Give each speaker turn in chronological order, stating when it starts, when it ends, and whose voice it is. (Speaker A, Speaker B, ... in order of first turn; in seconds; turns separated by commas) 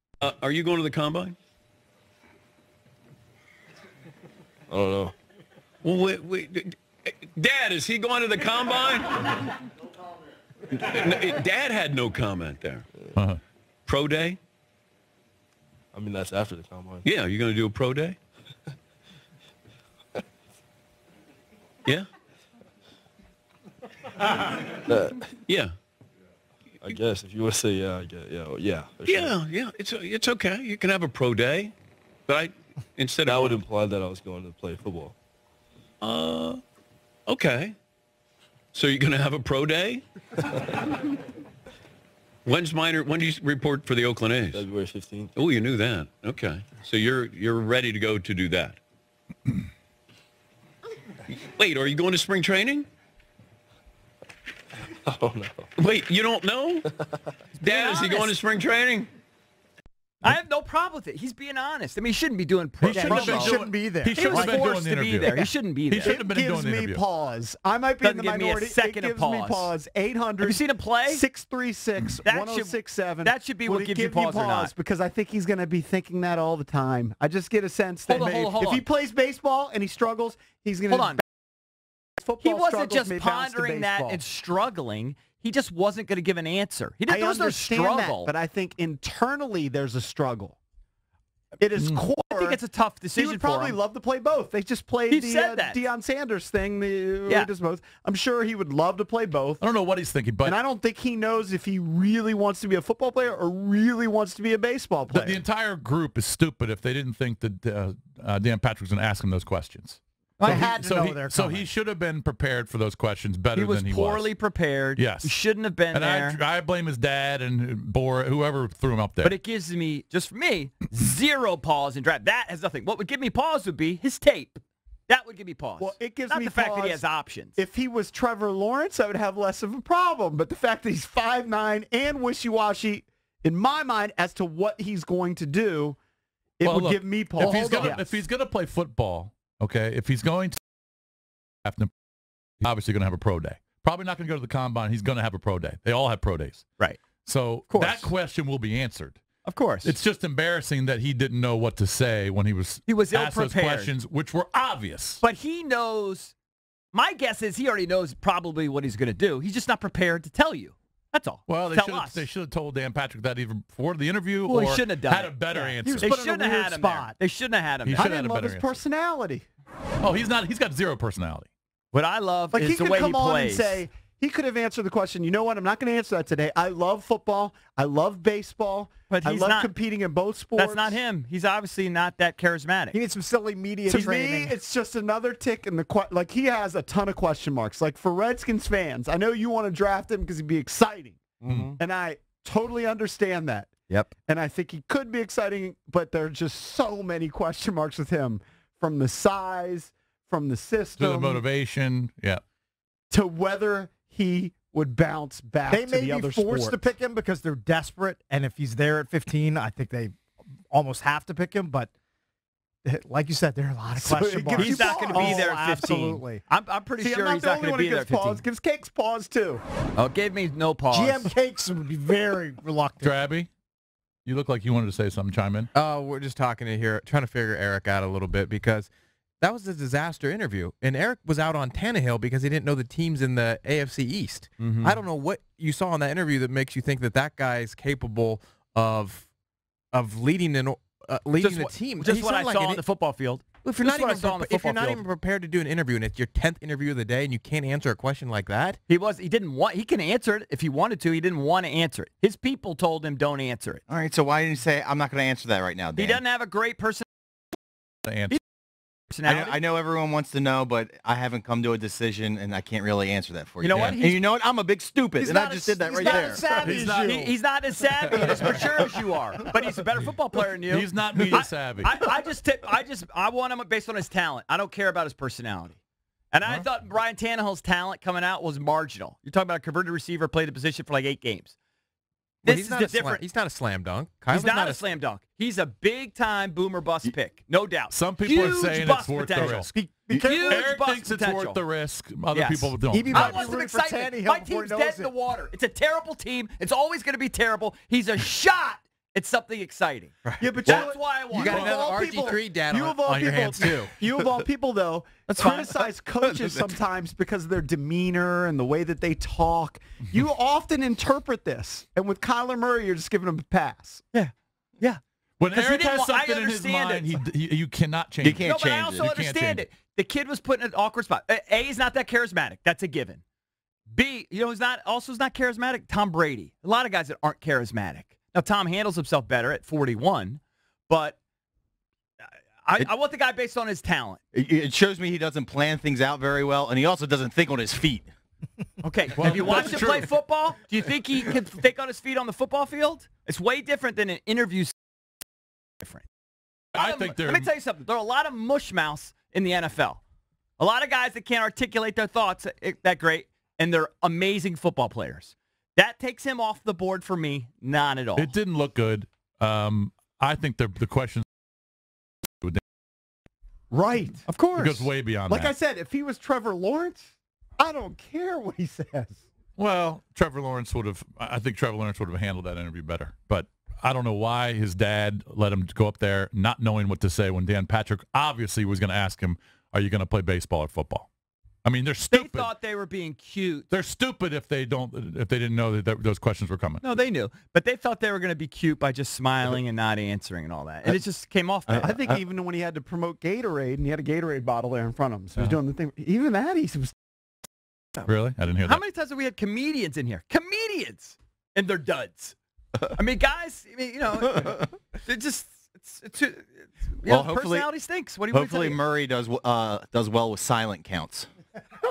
Speaker A: 0.2-1.4, Speaker B: 4.7-5.1, Speaker A: 5.8-9.5, Speaker A: 10.8-12.9, Speaker A: 13.9-14.4, Speaker B: 15.9-17.0, Speaker A: 17.0-18.2, Speaker B: 24.9-25.2, Speaker A: 25.5-25.8, Speaker B: 26.8-29.4, Speaker A: 29.1-31.7, Speaker A: 32.3-33.6, Speaker B: 33.3-35.1, Speaker A: 36.0-36.6, Speaker A: 37.3-37.8, Speaker A: 38.7-40.0, Speaker A: 42.5-44.7, Speaker B: 44.5-45.3, Speaker A: 45.4-48.8, Speaker A: 51.3-52.9, Speaker B: 55.1-55.6, Speaker A: 55.8-56.8, Speaker C: 57.5-58.4, Speaker A: 57.6-59.1, Speaker C: 60.2-66.2, Speaker D: 62.8-67.0, Speaker E: 62.9-64.1, Speaker F: 63.7-64.5, Speaker E: 66.0-81.2, Speaker C: 68.0-69.7, Speaker C: 70.4-71.2, Speaker C: 72.2-74.7, Speaker C: 78.1-78.8, Speaker C: 80.9-81.2, Speaker E: 82.2-84.2, Speaker C: 82.4-88.3, Speaker E: 87.1-90.6, Speaker E: 91.6-92.6, Speaker D: 91.8-92.0, Speaker C: 92.2-93.8, Speaker E: 93.2-99.7, Speaker C: 95.1-95.8, Speaker D: 99.6-100.6, Speaker E: 100.4-105.4, Speaker D: 105.1-114.3, Speaker C: 110.4-110.7, Speaker F: 110.4-111.7, Speaker C: 113.5-116.4, Speaker D: 115.0-115.4, Speaker D: 115.9-119.4, Speaker C: 119.2-127.6, Speaker E: 125.8-136.0, Speaker E: 136.6-138.1, Speaker D: 136.6-140.6, Speaker C: 137.4-138.0, Speaker D: 141.7-141.9, Speaker D: 142.6-146.7, Speaker D: 147.2-149.2, Speaker C: 147.7-148.1, Speaker C: 149.5-150.0, Speaker D: 149.8-155.2, Speaker C: 152.9-153.9, Speaker C: 155.2-156.3, Speaker C: 156.9-162.2, Speaker D: 161.5-166.2, Speaker C: 164.5-168.1, Speaker G: 166.0-167.0, Speaker D: 167.9-168.8, Speaker E: 168.0-169.5, Speaker D: 170.0-171.5, Speaker C: 171.9-173.8, Speaker E: 172.5-181.0, Speaker C: 179.1-179.7, Speaker C: 180.6-183.0, Speaker F: 182.9-184.6, Speaker E: 183.9-193.7, Speaker D: 191.4-191.7, Speaker E: 194.2-201.4, Speaker D: 201.0-202.4, Speaker E: 203.1-206.9, Speaker F: 205.7-210.2, Speaker F: 210.7-211.9, Speaker F: 212.9-216.4, Speaker E: 214.0-215.5, Speaker C: 214.6-218.5, Speaker G: 215.6-216.0, Speaker E: 217.0-219.6, Speaker C: 220.0-221.3, Speaker F: 220.9-223.2, Speaker D: 223.0-223.5, Speaker D: 224.2-225.7, Speaker G: 225.8-228.9, Speaker G: 229.4-239.3, Speaker C: 234.6-235.0, Speaker G: 239.9-242.8, Speaker C: 241.4-245.1, Speaker G: 243.6-248.8, Speaker C: 248.9-253.8, Speaker H: 253.9-256.2, Speaker C: 256.0-257.1, Speaker D: 258.1-258.4, Speaker C: 259.1-259.6, Speaker H: 259.2-266.5, Speaker C: 263.6-264.2, Speaker D: 263.8-264.0, Speaker F: 265.2-267.1, Speaker G: 265.5-267.1, Speaker C: 266.1-275.8, Speaker D: 266.6-267.3, Speaker D: 270.7-271.9, Speaker C: 276.3-281.5, Speaker C: 282.4-283.3, Speaker G: 282.5-284.8, Speaker C: 284.3-291.6, Speaker D: 287.9-293.4, Speaker G: 289.4-290.6, Speaker C: 292.3-301.8, Speaker F: 292.9-293.2, Speaker G: 293.1-294.6, Speaker F: 293.9-295.1, Speaker G: 300.2-303.9, Speaker E: 300.4-314.1, Speaker C: 305.3-305.7, Speaker C: 314.1-315.0, Speaker D: 315.4-319.7, Speaker C: 315.5-317.2, Speaker H: 318.2-319.1, Speaker C: 318.4-323.2, Speaker C: 323.9-331.2, Speaker C: 332.6-334.2, Speaker H: 334.3-338.1, Speaker C: 338.8-344.7, Speaker D: 339.2-340.1, Speaker C: 345.8-346.1, Speaker D: 346.8-347.5, Speaker C: 346.8-350.0, Speaker C: 350.6-358.3, Speaker D: 358.2-361.2, Speaker E: 363.7-364.4, Speaker C: 364.3-364.8, Speaker D: 364.6-365.5, Speaker E: 365.3-369.2, Speaker D: 369.6-381.1, Speaker D: 381.6-382.5, Speaker C: 382.1-383.7, Speaker D: 383.7-386.8, Speaker C: 386.8-392.0, Speaker H: 391.7-392.2, Speaker E: 391.8-396.9, Speaker D: 398.1-398.8, Speaker C: 398.6-402.4, Speaker C: 402.9-408.8, Speaker H: 407.1-407.7, Speaker H: 408.3-411.3